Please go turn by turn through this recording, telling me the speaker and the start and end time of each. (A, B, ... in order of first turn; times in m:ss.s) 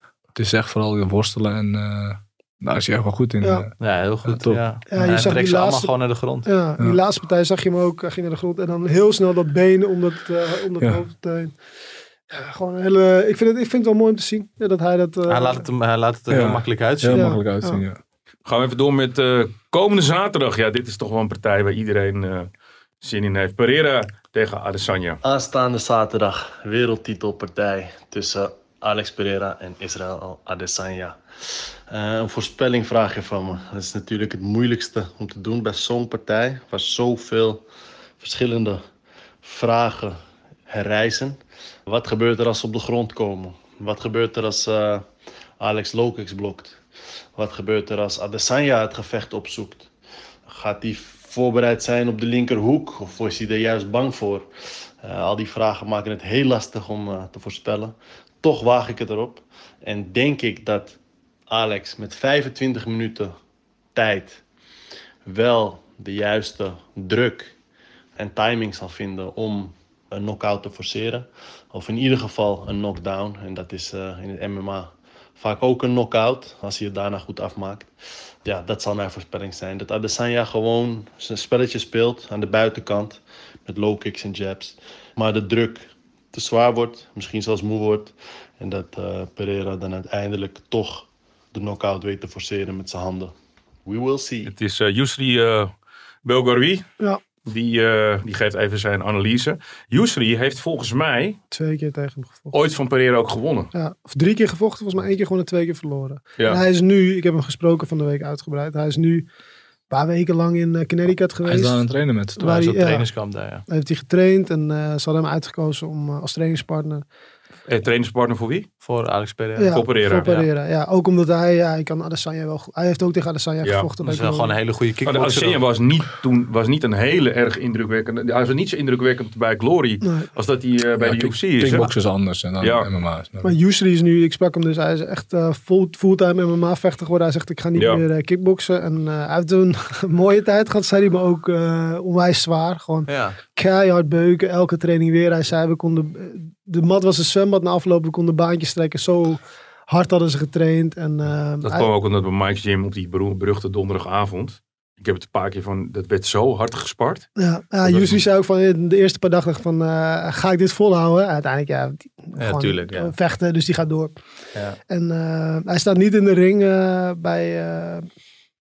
0:00.3-0:05.3 A
0:03.4-0:03.7 B
0:03.8-0:06.5 C
0:04.9-0:11.5 B
0:12.3-0:15.7 B
0:15.3-0:17.4 C
0:16.3-0:18.0 A
0:17.1-0:17.8 B
0:18.4-0:22.5 D
0:23.0-0:25.2 D
0:25.2-0:37.6 E
0:38.2-0:38.8 E
0:39.4-0:40.2 E
0:40.7-0:45.0 E
0:45.6-0:46.8 E
0:47.3-0:49.9 E
0:50.5-0:54.5 E
0:55.0-1:01.0 E
1:01.5-1:03.3 E
1:03.9-1:04.4 E
1:05.2-1:07.5 E
1:08.2-1:17.9 E
1:18.4-1:33.3 E
1:33.8-1:34.5 E
1:34.4-1:35.7 D
1:36.2-1:36.9 D
1:37.4-1:41.4 D
1:41.5-1:42.5 B
1:42.5-1:43.7 D
1:43.7-1:49.2 B
1:49.9-1:53.1 B
1:51.4-1:52.7 A
1:52.4-1:53.6 C
1:53.7-1:57.0 B
1:57.7-1:58.7 D
1:58.8-2:00.5 C
1:59.6-2:04.6 B
1:59.7-2:00.3 D
2:03.6-2:03.9 D
2:04.0-2:05.6 C
2:05.0-2:11.9 D
2:11.0-2:13.5 A
2:12.6-2:12.9 D
2:13.4-2:31.9 B
2:17.7-2:18.0 D
2:23.1-2:23.4 C
2:31.6-2:37.3 D
2:37.4-2:44.1 B
2:37.8-2:38.2 D
2:42.4-2:43.1 C
2:44.9-2:48.0 B